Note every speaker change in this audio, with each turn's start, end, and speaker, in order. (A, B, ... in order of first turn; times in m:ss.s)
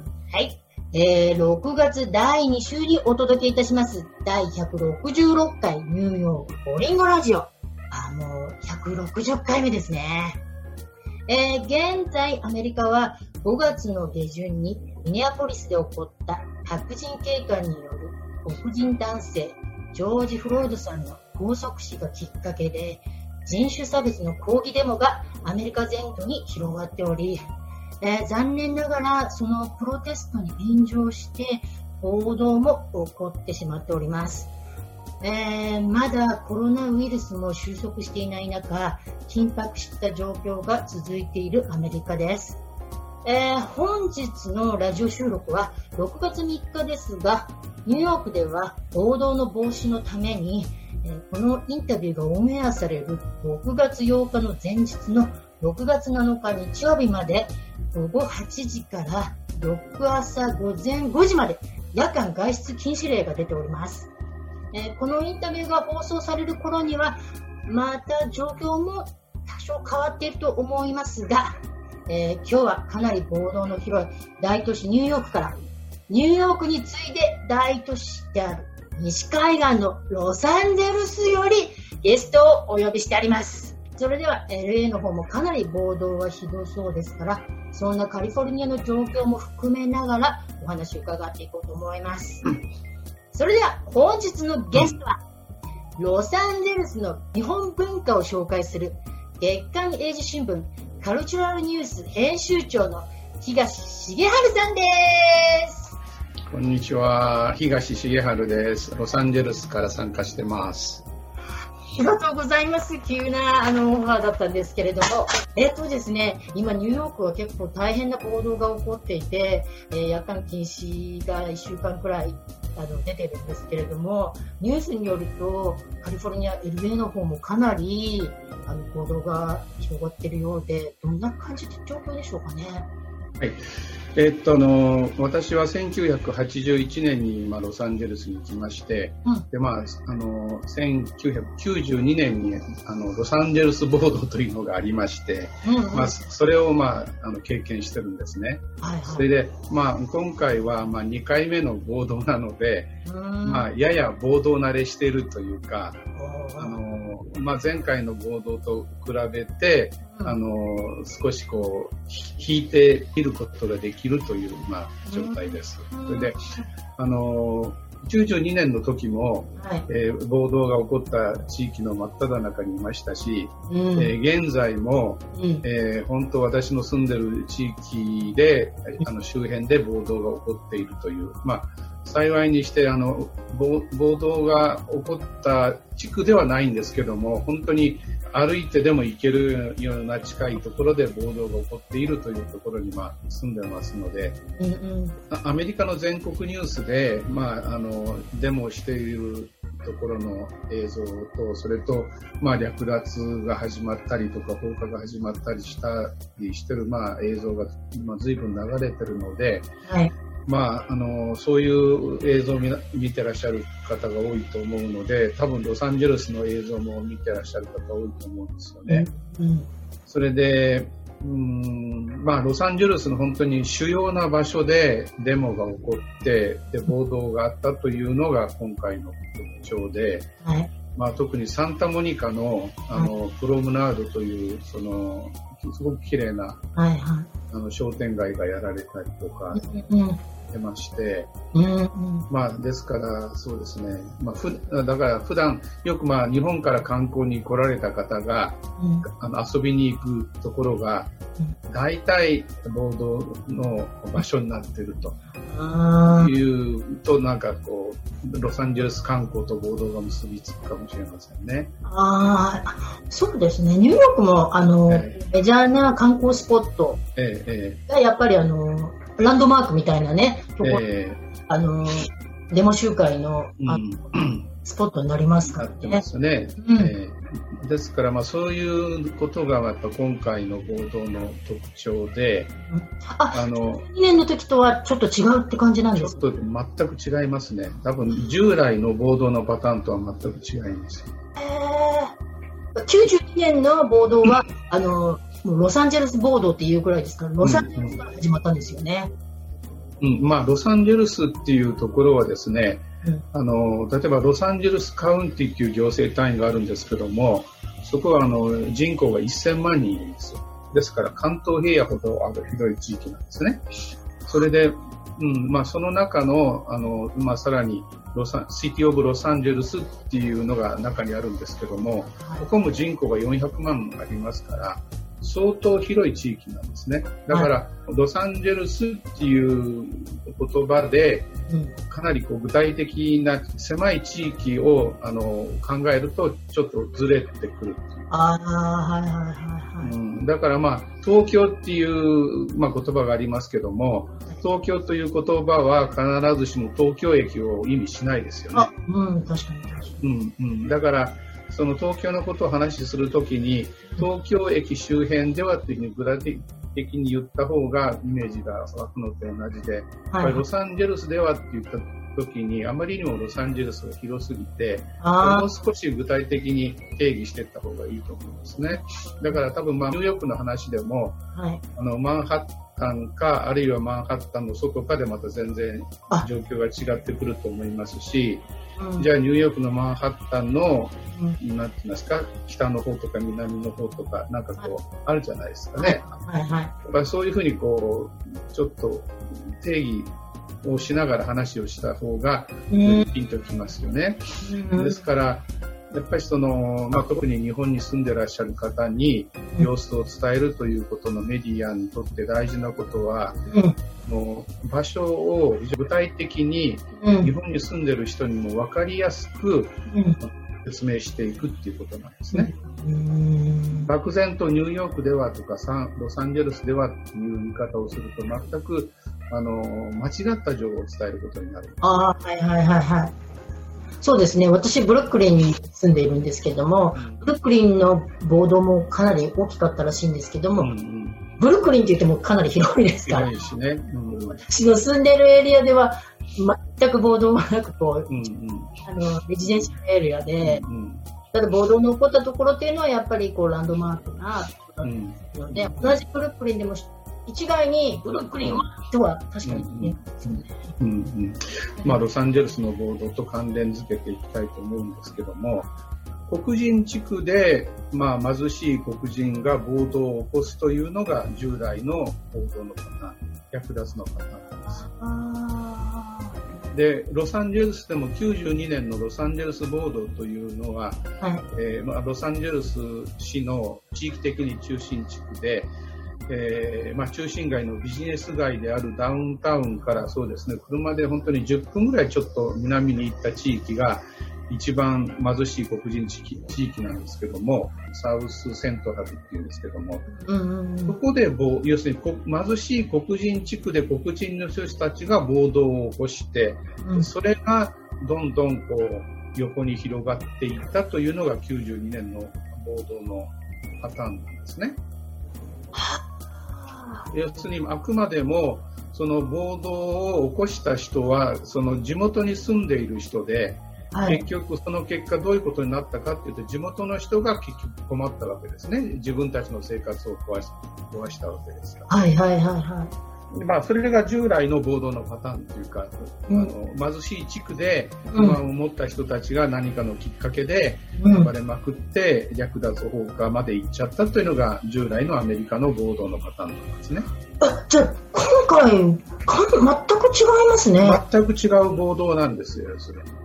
0:00.3-0:10.4 A
0:11.3-0:27.4 A
0:28.0-0:34.5 A
0:35.2-0:42.6 A
0:43.2-1:04.1 A
1:04.7-1:11.5 A
1:12.1-1:15.6 A
1:16.1-1:32.5 A
1:33.3-1:35.2 A
1:36.0-1:45.9 A
1:46.5-1:51.0 B
1:52.0-2:12.9 A
2:13.4-2:32.9 B
2:25.6-2:26.2 A
2:28.8-2:29.3 A
2:33.0-2:33.7 A
2:33.4-2:36.0 B
2:36.2-2:36.8 A
2:36.6-3:14.4 B
2:45.1-2:46.6 A
2:49.6-2:49.9 A
2:53.7-2:54.1 A
2:55.4-2:55.6 A
3:14.6-3:15.2 A
3:15.3-3:29.7 B
3:29.9-3:30.1 A
3:30.5-3:39.1 B
3:38.9-3:39.7 A
3:40.1-3:50.3 B
3:50.4-3:50.7 A
3:51.0-3:56.6 B
3:56.8-3:57.3 A
3:57.5-3:59.7 B
3:59.5-4:00.2 A
4:00.5-4:01.3 B
4:01.5-4:02.3 A
4:02.3-4:11.1 B
4:08.8-4:09.0 A
4:11.7-4:15.2 B
4:15.5-4:16.3 A
4:16.1-4:21.7 B
4:21.8-4:27.0 A
4:24.9-4:25.2 B
4:27.2-4:27.8 B
4:27.9-4:30.8 A
4:30.6-4:31.2 B
4:31.5-4:33.8 A
4:33.6-4:34.5 B
4:34.6-4:36.0 A
4:35.5-4:42.5 B
4:36.6-4:37.0 A
4:42.7-4:46.2 A
4:43.3-4:43.8 B
4:46.0-4:51.1 B
4:51.4-4:52.2 A
4:52.8-4:59.1 A
4:57.4-4:58.0 B
5:00.0-5:13.6 B
5:14.3-5:31.3 B
5:31.5-5:31.8 A
5:31.9-5:38.1 B
5:38.1-5:39.9 A
5:39.8-5:48.7 B
5:48.5-5:50.0 A
5:50.0-6:11.2 B
6:00.1-6:00.4 A
6:05.0-6:05.5 A
6:11.4-6:11.6 A
6:11.8-6:18.5 B
6:18.8-6:19.1 A
6:19.0-6:26.1 B
6:25.8-6:26.7 A
6:26.8-6:43.4 B
6:32.7-6:33.1 A
6:34.4-6:35.1 A
6:43.5-6:43.8 A
6:44.0-6:52.5 B
6:47.0-6:47.3 A
6:49.9-6:50.2 A
6:52.3-6:53.9 A
6:53.8-7:01.8 B
7:01.8-7:03.2 A
7:04.0-7:10.7 A
7:07.0-7:07.2 B
7:10.6-7:11.2 B
7:11.4-7:13.4 A
7:13.1-7:14.4 B
7:14.3-7:18.1 A
7:18.1-7:18.7 B
7:18.8-7:20.6 A
7:20.4-7:21.0 B
7:21.3-7:30.6 A
7:24.8-7:25.2 B
7:28.4-7:28.7 B
7:29.4-7:35.7 B
7:36.3-7:44.9 B
7:44.7-7:46.4 A
7:46.7-7:55.7 B
7:56.3-8:10.1 B
8:10.2-8:11.0 A
8:10.9-8:24.8 B
8:16.8-8:17.1 A
8:25.7-8:27.1 A
8:27.1-8:41.9 B
8:33.9-8:34.2 A
8:41.9-8:42.9 A
8:43.3-8:57.1 B
8:48.1-8:48.4 A
8:51.0-8:51.3 A
8:57.4-9:01.0 A
9:00.8-9:03.1 B